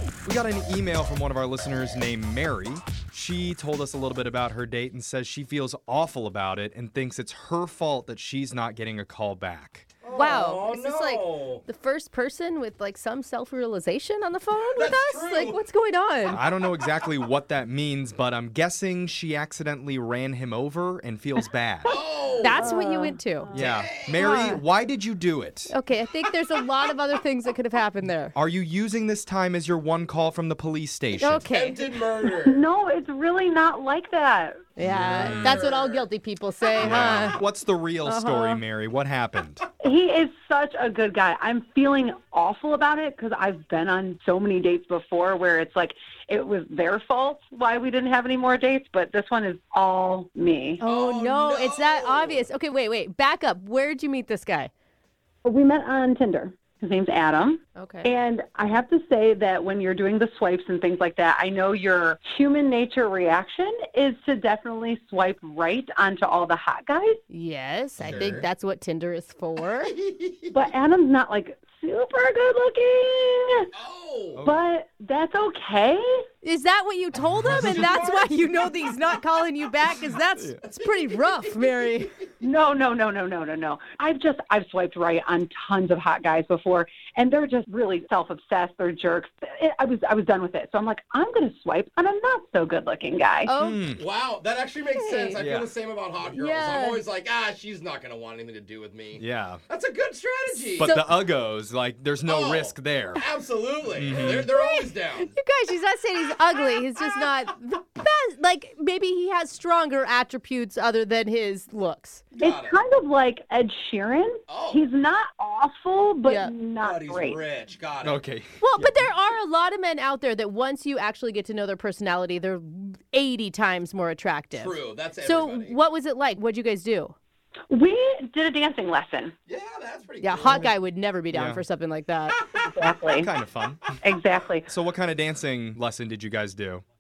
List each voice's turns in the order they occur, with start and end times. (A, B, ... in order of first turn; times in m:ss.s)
0:00.2-0:09.9 A
0:10.0-0:11.6 B
0:10.1-0:16.4 C
0:14.6-0:15.6 B
0:16.3-0:21.9 A
0:21.8-0:23.6 D
0:21.9-0:22.6 B
0:22.4-0:23.5 C
0:23.5-0:24.2 B
0:23.5-0:25.7 A
0:24.2-0:24.6 C
0:25.7-0:28.3 C
0:28.3-0:31.5 A
0:31.2-0:31.8 C
0:31.5-0:32.6 B
0:32.4-0:34.6 D
0:34.8-0:37.4 C
0:34.8-0:35.6 A
0:35.0-0:36.1 B
0:36.8-0:39.6 A
0:38.0-0:38.6 C
0:39.8-0:50.8 D
0:50.8-0:54.7 C
0:50.8-0:52.5 B
0:55.4-1:07.2 D
0:57.8-0:58.1 C
1:07.3-1:09.9 C
1:08.0-1:08.5 A
1:08.0-1:08.4 B
1:09.9-1:10.6 B
1:10.5-1:13.7 D
1:13.8-1:14.4 B
1:14.4-1:14.6 A
1:14.4-1:16.2 D
1:16.4-1:22.1 C
1:17.4-1:17.8 A
1:17.4-1:19.2 B
1:19.8-1:20.1 B
1:20.6-1:22.0 B
1:22.4-1:33.5 D
1:33.5-1:33.9 C
1:33.6-1:34.0 A
1:34.0-1:40.9 B
1:35.0-1:35.4 C
1:35.4-1:35.7 A
1:36.3-1:37.0 C
1:39.2-1:39.6 A
1:40.8-1:41.2 C
1:40.8-1:43.2 A
1:42.3-1:45.4 B
1:43.9-1:44.5 A
1:44.2-1:52.2 C
1:52.3-1:52.8 B
1:52.4-1:57.4 D
1:54.5-1:54.8 B
1:56.3-1:56.5 C
1:56.8-1:58.2 B
1:58.0-1:59.1 A
1:58.6-2:07.2 C
2:04.5-2:05.8 B
2:07.7-2:09.3 D
2:09.5-2:10.7 B
2:10.2-2:12.4 C
2:10.5-2:10.7 A
2:11.3-2:11.6 A
2:12.6-2:13.3 D
2:13.2-2:14.0 A
2:14.0-2:14.7 D
2:14.7-2:16.8 A